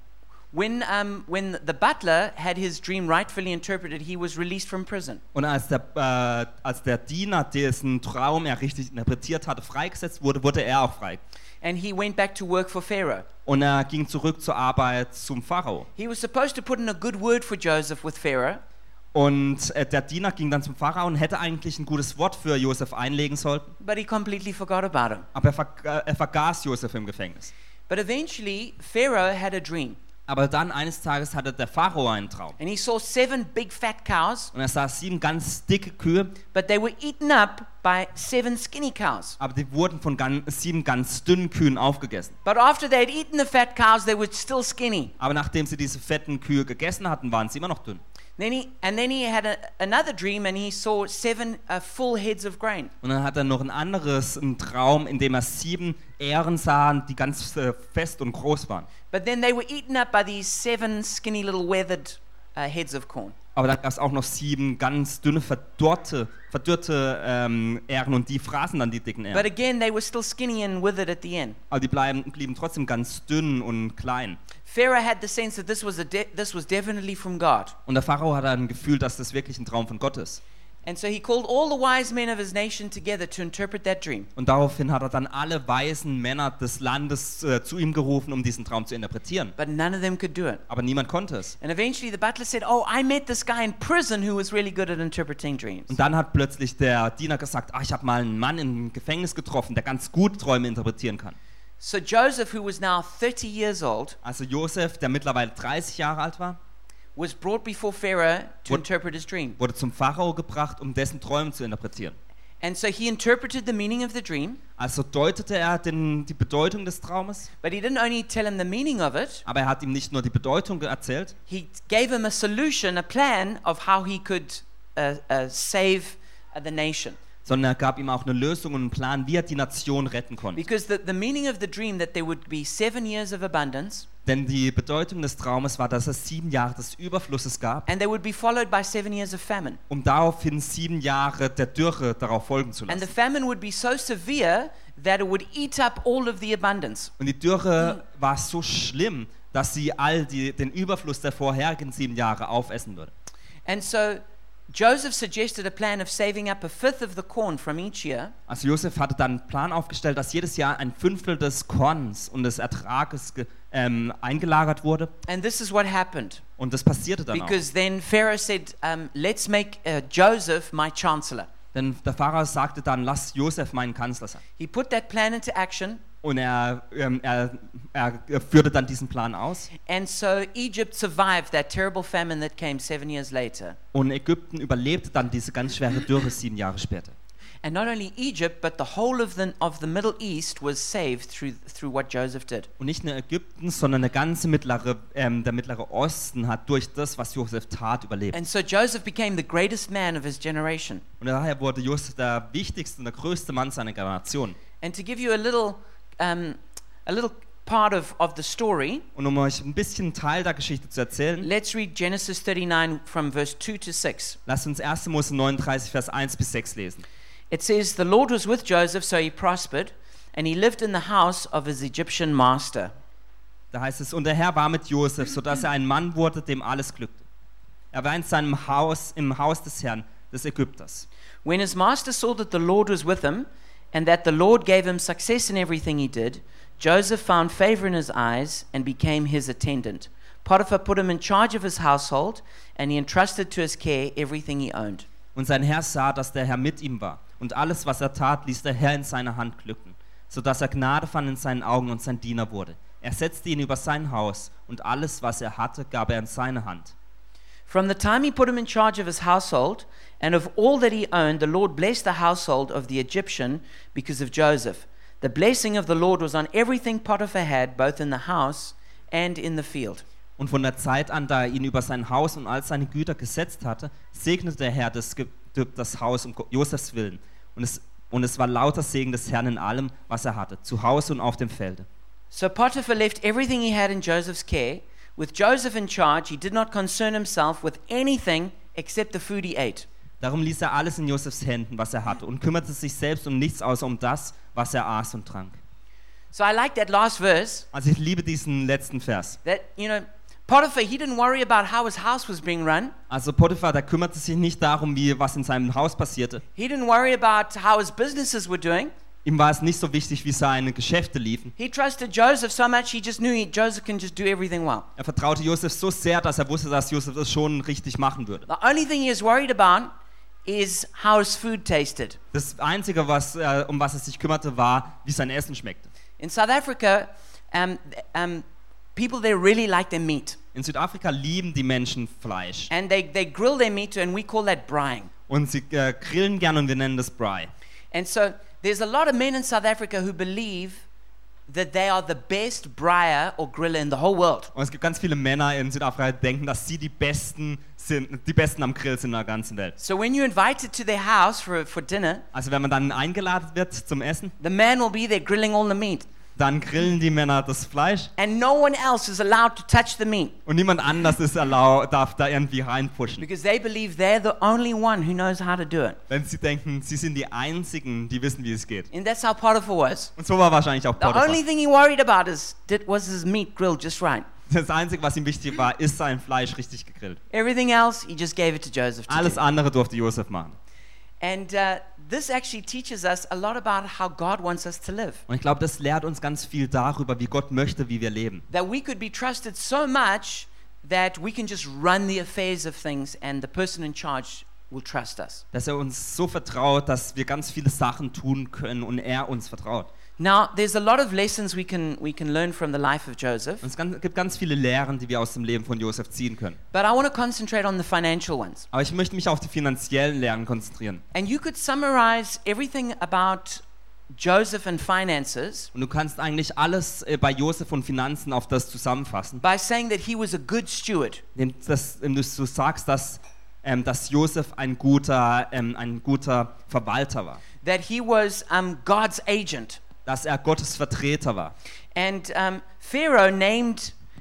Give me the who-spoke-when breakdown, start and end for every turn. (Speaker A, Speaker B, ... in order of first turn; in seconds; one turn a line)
Speaker A: 0.5-5.2
Speaker B: 5.3-11.2
Speaker A: 11.6-13.3
Speaker B: 13.5-15.9
Speaker A: 16.0-18.6
Speaker B: 19.1-23.7
Speaker A: 23.8-25.3
Speaker B: 25.3-27.5
Speaker A: 27.9-30.0
Speaker B: 30.3-32.6
Speaker A: 32.6-34.5
Speaker B: 34.5-36.4
Speaker A: 36.5-39.4
Speaker B: 39.4-42.4
Speaker A: 42.5-45.1
Speaker B: 45.2-48.0
Speaker A: 48.4-52.9
Speaker B: 53.0-58.9
Speaker A: 59.1-63.4
Speaker B: 63.6-69.5
Speaker A: 69.3-71.6
Speaker B: 71.7-74.4
Speaker A: 74.7-77.8
Speaker B: 77.9-80.4
Speaker A: 80.8-84.3
Speaker B: 84.4-89.5
Speaker A: 89.6-90.6
Speaker B: 90.7-91.5
Speaker A: 91.6-96.0
Speaker B: 95.9-101.4
Speaker A: 101.8-104.2
Speaker B: 104.2-106.6
Speaker A: 107.2-109.6
Speaker B: 109.6-112.2
Speaker A: 112.6-114.6
Speaker B: 114.8-117.5
Speaker A: 117.6-119.5
Speaker B: 119.5-121.3
Speaker A: 121.5-127.2
Speaker B: 127.5-130.7
Speaker A: 130.5-134.1
Speaker B: 134.3-137.9
Speaker A: 137.9-139.8
Speaker B: 139.9-143.1
Speaker A: 142.9-147.1
Speaker B: 147.2-153.1
Speaker A: 153.7-158.3
Speaker B: 158.5-165.1
Speaker A: 165.2-166.4
Speaker B: 166.6-167.6
Speaker A: 167.3-171.5
Speaker B: 171.7-174.4
Speaker A: 174.6-176.0
Speaker B: 176.2-179.7
Speaker A: 179.8-183.8
Speaker B: 183.9-187.2
Speaker A: 187.6-192.7
Speaker B: 192.8-198.4
Speaker A: 198.3-201.0
Speaker B: 201.2-204.6
Speaker A: 204.8-209.1
Speaker B: 209.2-211.5
Speaker A: 211.4-214.4
Speaker B: 214.5-217.0
Speaker A: 217.5-222.9
Speaker B: 223.7-227.2
Speaker B: 227.9-231.1
Speaker A: 231.4-245.1
Speaker B: 245.3-256.9
Speaker A: 257.7-270.0
Speaker B: 270.4-281.9
Speaker A: 282.3-289.9
Speaker B: 290.2-295.6
Speaker A: 296.3-297.7
Speaker B: 297.7-299.4
Speaker A: 299.4-302.9
Speaker B: 303.1-306.4
Speaker A: 306.6-308.9
Speaker B: 309.2-311.5
Speaker A: 311.6-314.9
Speaker B: 315.0-318.5
Speaker A: 318.5-319.9
Speaker A: 320.5-322.2
Speaker B: 322.3-325.9
Speaker A: 326.2-328.4
Speaker A: 328.9-330.4
Speaker B: 330.5-332.7
Speaker A: 332.7-335.1
Speaker B: 335.3-337.5
Speaker A: 337.9-340.9
Speaker A: 341.5-344.5
Speaker B: 344.6-349.8
Speaker A: 349.8-352.2
Speaker B: 352.3-354.3
Speaker A: 354.4-356.1
Speaker B: 356.4-358.1
Speaker A: 358.2-360.4
Speaker B: 360.5-363.2
Speaker A: 363.2-366.0
Speaker B: 366.1-368.9
Speaker A: 368.9-370.1
Speaker B: 370.2-371.4
Speaker A: 371.0-374.3
Speaker B: 374.5-377.2
Speaker A: 377.3-379.4
Speaker B: 379.1-380.6
Speaker A: 381.2-385.2
Speaker B: 385.3-388.4
Speaker A: 388.5-395.4
Speaker B: 395.5-399.9
Speaker A: 400.2-403.7
Speaker B: 403.6-406.6
Speaker A: 406.7-408.7
Speaker B: 408.7-411.0
Speaker A: 411.1-415.7
Speaker B: 415.7-419.4
Speaker A: 419.4-421.2
Speaker B: 421.4-427.4
Speaker A: 427.6-429.8
Speaker B: 430.1-431.5
Speaker A: 431.9-433.9